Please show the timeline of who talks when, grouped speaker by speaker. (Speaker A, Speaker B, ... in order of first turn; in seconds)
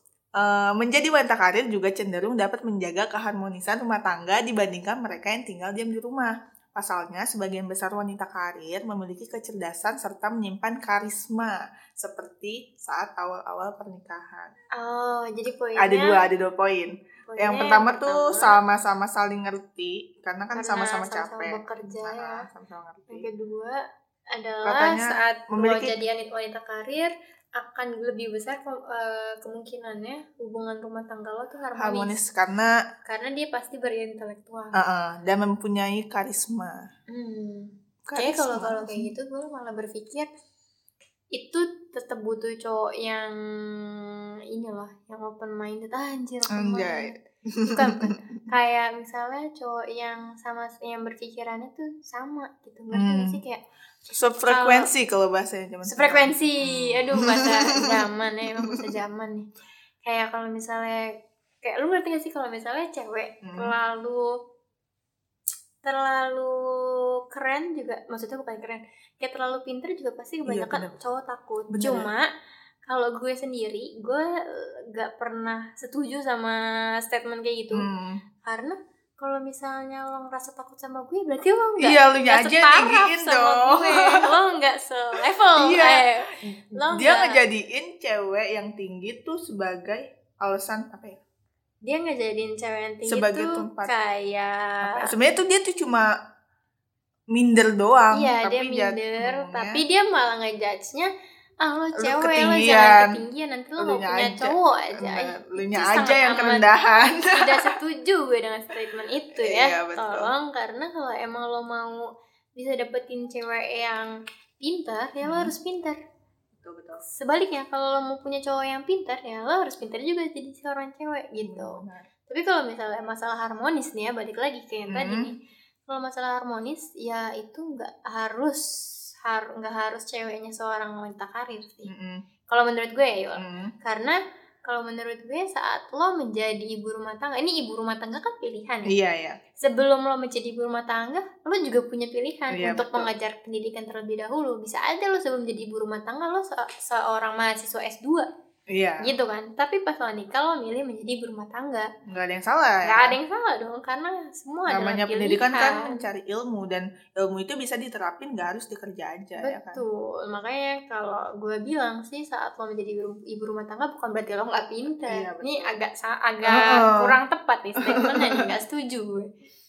Speaker A: 0.3-14.5, 15.8-23.3, 24.6-25.9, 31.8-32.8, 34.7-36.9, 38.0-39.1, 46.5-48.2, 52.9-53.4, 54.1-58.0, 58.6-58.8, 63.4-63.7, 70.5-70.9, 71.7-72.1, 77.7-78.2, 81.8-84.4, 85.5-91.2, 93.0-93.9, 94.8-96.1, 97.3-99.8, 102.0-103.2, 103.8-107.7, 109.3-110.3, 115.2-115.5, 116.5-117.0, 121.4-122.1, 124.9-125.3, 131.9-132.2, 133.4-133.7, 138.9-139.4, 142.5-143.1, 148.7-149.1, 152.1-153.2, 154.7-159.8, 165.1-165.7, 166.4-167.2, 167.8-168.4
Speaker B: 14.7-16.2, 17.3-18.6, 20.5-22.4, 23.1-32.1, 33.0-34.8, 37.1-40.3, 41.3-47.1, 47.7-53.6, 54.5-54.9, 55.8-59.5, 60.0-64.4, 65.8-72.3, 72.8-77.9, 78.4-87.4, 91.8-95.1, 98.1-106.7, 107.3-116.0, 117.0-128.7, 129.2-131.9, 132.5-138.9, 139.6-148.3, 149.0-151.9, 152.8-156.0, 159.4-169.3